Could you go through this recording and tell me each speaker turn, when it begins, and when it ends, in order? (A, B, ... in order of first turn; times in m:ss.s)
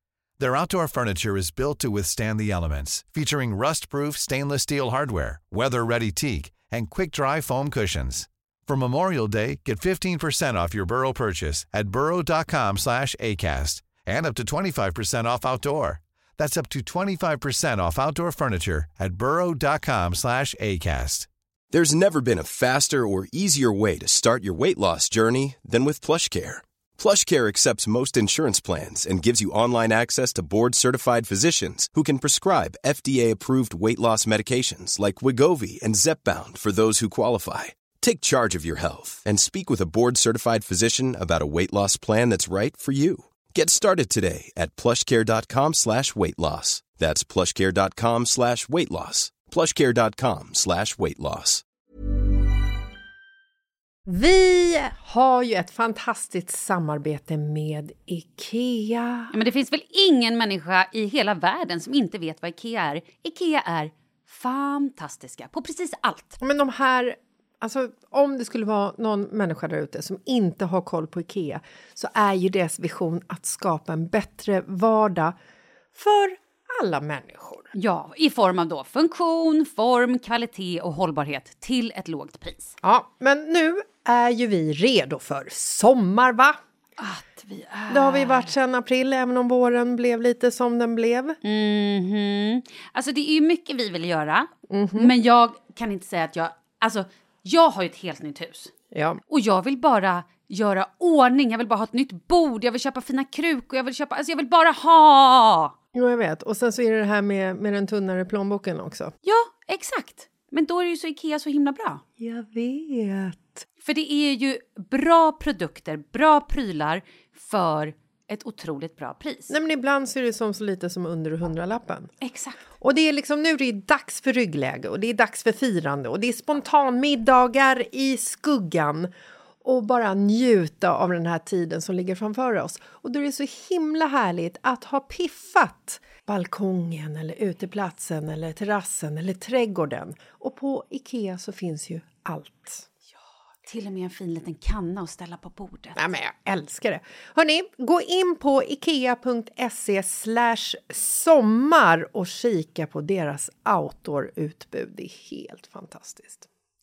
0:00.4-0:21.3 A
0:21.7-0:51.6 B
0:54.1-0:59.3 C
0:59.3-1:06.4 D
1:06.4-1:15.4 C
1:16.0-1:17.7 C
1:17.7-1:22.8 D
1:22.8-1:26.6 C
1:27.0-1:28.5 D
1:27.9-1:31.4 C
1:31.4-1:38.7 D
1:34.7-1:35.1 C
1:38.9-1:39.2 C
1:39.3-1:45.8 D
1:45.9-1:49.1 C
1:49.2-1:52.0 D
1:52.2-1:53.6 C
1:53.8-1:59.5 D
1:59.5-2:02.1 C
2:02.2-2:02.6 D
2:02.8-2:09.1 C
2:09.6-2:22.9 C
2:23.7-2:26.0 D
2:26.0-2:36.5 C